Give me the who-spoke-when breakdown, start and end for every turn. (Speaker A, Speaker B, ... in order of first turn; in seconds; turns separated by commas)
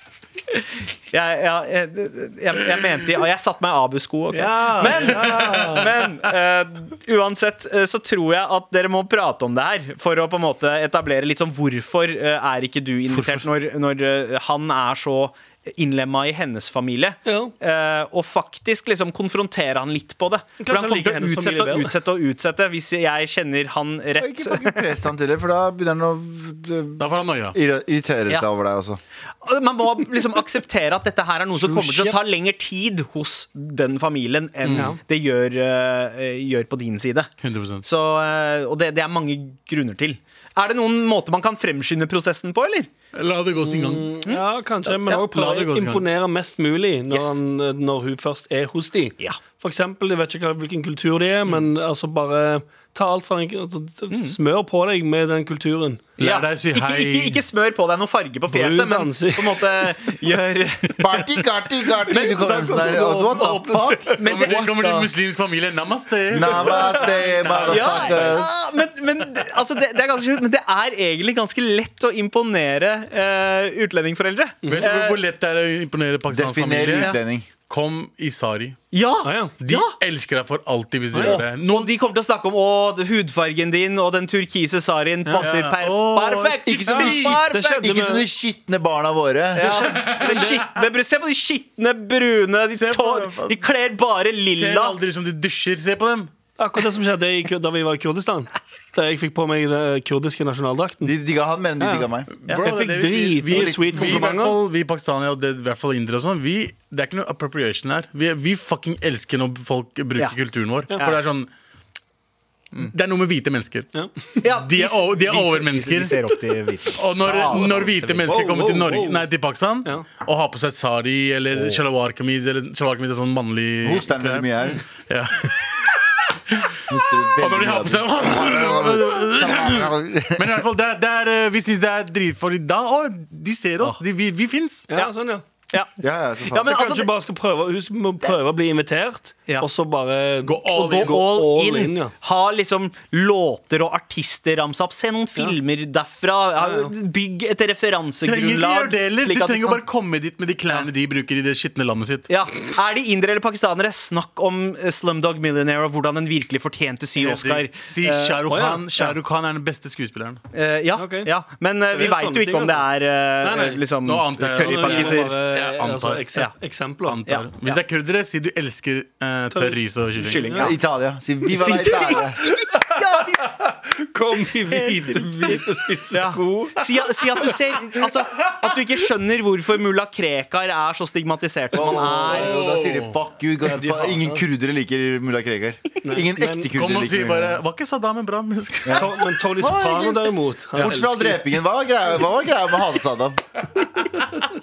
Speaker A: 1.1-24.9, Speaker B: 4.3-5.9, Speaker C: 5.2-5.7, Speaker B: 17.2-17.5, Speaker B: 20.6-21.9, Speaker D: 24.2-29.0, Speaker C: 27.0-27.6, Speaker A: 29.4-37.3, Speaker D: 31.5-32.4, Speaker C: 34.6-35.0, Speaker B: 34.7-35.0, Speaker C: 37.4-37.8, Speaker A: 37.8-42.9, Speaker C: 43.1-44.1, Speaker B: 43.6-56.1, Speaker C: 45.1-46.0, Speaker A: 47.1-47.4, Speaker A: 54.1-54.4, Speaker C: 56.2-57.4, Speaker A: 56.2-61.2, Speaker B: 58.5-59.9, Speaker D: 61.0-65.1, Speaker A: 62.1-64.7, Speaker B: 62.7-64.1, Speaker C: 64.2-68.4, Speaker D: 66.3-68.5, Speaker B: 66.6-68.1, Speaker A: 67.6-75.2, Speaker B: 74.6-74.9, Speaker C: 74.7-77.1, Speaker D: 76.3-77.5, Speaker A: 76.9-77.2, Speaker C: 77.7-78.8, Speaker A: 78.9-79.9, Speaker B: 79.2-79.5, Speaker C: 79.6-81.9, Speaker B: 81.1-81.4, Speaker A: 81.2-87.9, Speaker C: 85.4-87.3, Speaker D: 86.6-89.9, Speaker B: 87.2-88.2, Speaker B: 89.5-90.6, Speaker A: 89.5-95.0, Speaker C: 90.0-90.6, Speaker C: 92.8-93.6, Speaker C: 94.5-96.3, Speaker B: 96.6-101.1, Speaker D: 101.0-102.3, Speaker B: 101.8-104.6, Speaker C: 102.4-111.5, Speaker D: 103.5-104.1, Speaker C: 112.9-113.9, Speaker A: 114.4-118.4, Speaker C: 114.4-116.2, Speaker C: 117.0-124.5, Speaker D: 117.2-118.0, Speaker B: 118.3-119.2, Speaker D: 123.8-124.8, Speaker C: 125.0-125.9, Speaker D: 126.9-130.6, Speaker C: 127.4-134.9, Speaker B: 134.9-135.4, Speaker D: 136.0-136.8, Speaker A: 136.5-137.1, Speaker B: 136.6-142.1, Speaker C: 140.4-141.2, Speaker A: 140.7-149.8, Speaker B: 146.6-146.9, Speaker C: 148.2-152.3, Speaker A: 152.3-158.4, Speaker C: 157.2-160.4, Speaker B: 158.5-158.8, Speaker A: 160.5-165.3, Speaker B: 161.0-161.3, Speaker B: 161.9-162.8, Speaker B: 163.4-163.8, Speaker C: 164.0-166.2, Speaker B: 164.5-167.2, Speaker C: 167.0-170.4, Speaker A: 167.2-167.8, Speaker B: 169.5-169.8, Speaker A: 170.2-170.8, Speaker B: 170.3-170.7, Speaker D: 170.6-172.4, Speaker A: 171.5-173.7, Speaker B: 172.7-173.2, Speaker B: 173.9-176.8, Speaker A: 174.7-182.6, Speaker D: 181.7-187.6, Speaker C: 182.1-183.1, Speaker B: 183.6-184.4, Speaker B: 186.0-186.7, Speaker C: 186.7-189.1, Speaker D: 188.8-190.2, Speaker B: 188.9-191.5, Speaker D: 190.8-193.4